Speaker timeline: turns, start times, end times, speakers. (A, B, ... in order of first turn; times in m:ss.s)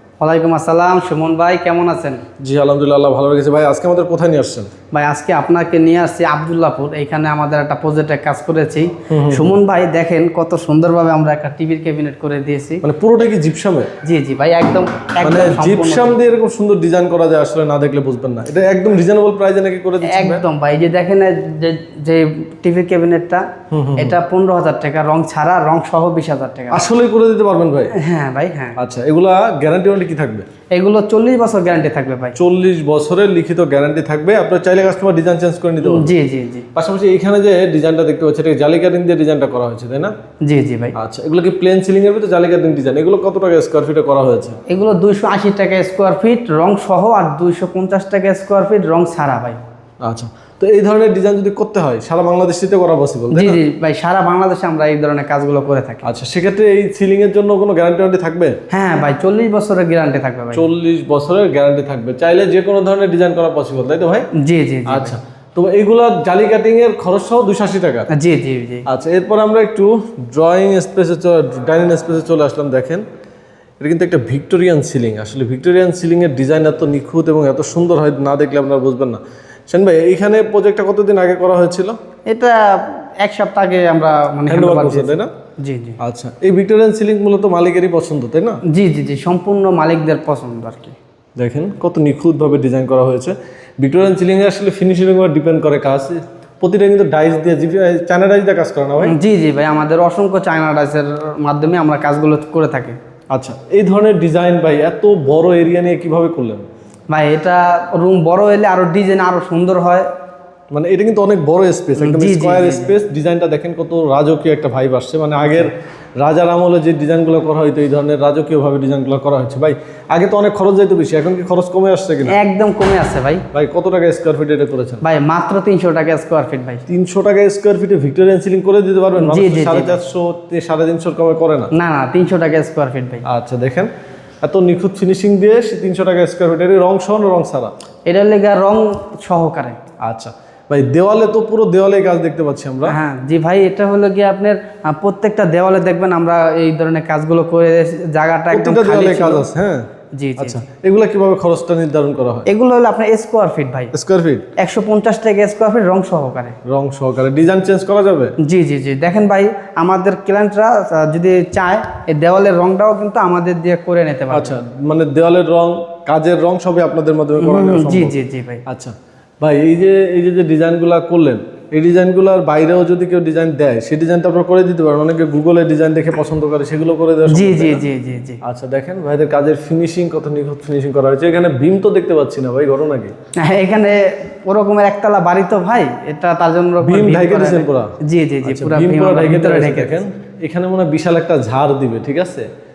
0:00.2-0:02.2 A
0:02.4-0:04.7 B
0:04.9-0:12.8 A
0:09.1-0:09.6 B
0:12.8-0:13.9 B
0:14.0-0:16.3 A
0:15.2-0:20.4 B
0:20.0-0:23.4 A
0:23.7-0:24.2 B
0:24.0-0:26.9 A
0:26.7-0:27.9 B
0:27.9-0:28.8 A
0:28.8-0:30.4 B
0:30.7-0:32.4 A
0:32.4-0:36.1 B
0:35.8-0:36.7 A
0:36.8-0:40.1 B
0:40.4-0:40.9 A
0:40.9-0:44.6 B
0:44.7-0:49.6 A
0:50.0-0:53.6 B
0:53.3-0:56.0 A
0:56.0-0:58.6 B
0:58.7-1:00.6 A
1:00.5-1:04.3 B
1:04.4-1:05.2 A
1:04.9-1:08.1 B
1:08.1-1:08.8 A
1:08.9-1:13.0 B
1:13.8-1:22.0 B
1:22.3-1:26.0 A
1:24.5-1:25.3 B
1:26.0-1:28.6 B
1:28.7-1:31.0 A
1:31.4-1:39.2 B
1:39.0-1:43.0 A
1:43.3-1:46.6 B
1:47.1-1:50.1 A
1:50.7-2:02.4 B
1:52.0-1:53.0 A
2:02.3-2:03.4 A
2:03.5-2:05.0 B
2:05.0-2:06.8 A
2:06.9-2:11.7 B
2:09.2-2:10.0 A
2:11.7-2:13.2 A
2:13.2-2:13.9 B
2:14.4-2:17.7 B
2:18.1-2:19.8 A
2:20.0-2:23.0 B
2:22.9-2:29.5 A
2:28.5-2:29.8 B
2:30.2-2:30.6 A
2:30.4-2:32.5 B
2:32.5-2:33.9 A
2:33.9-2:34.4 B
2:34.6-2:36.6 A
2:36.6-2:38.3 B
2:38.4-2:44.6 A
2:44.3-2:57.8 B
2:47.4-2:48.6 A
2:57.3-2:58.4 A
2:58.4-3:03.1 B
3:03.4-3:10.0 A
3:06.8-3:12.5 B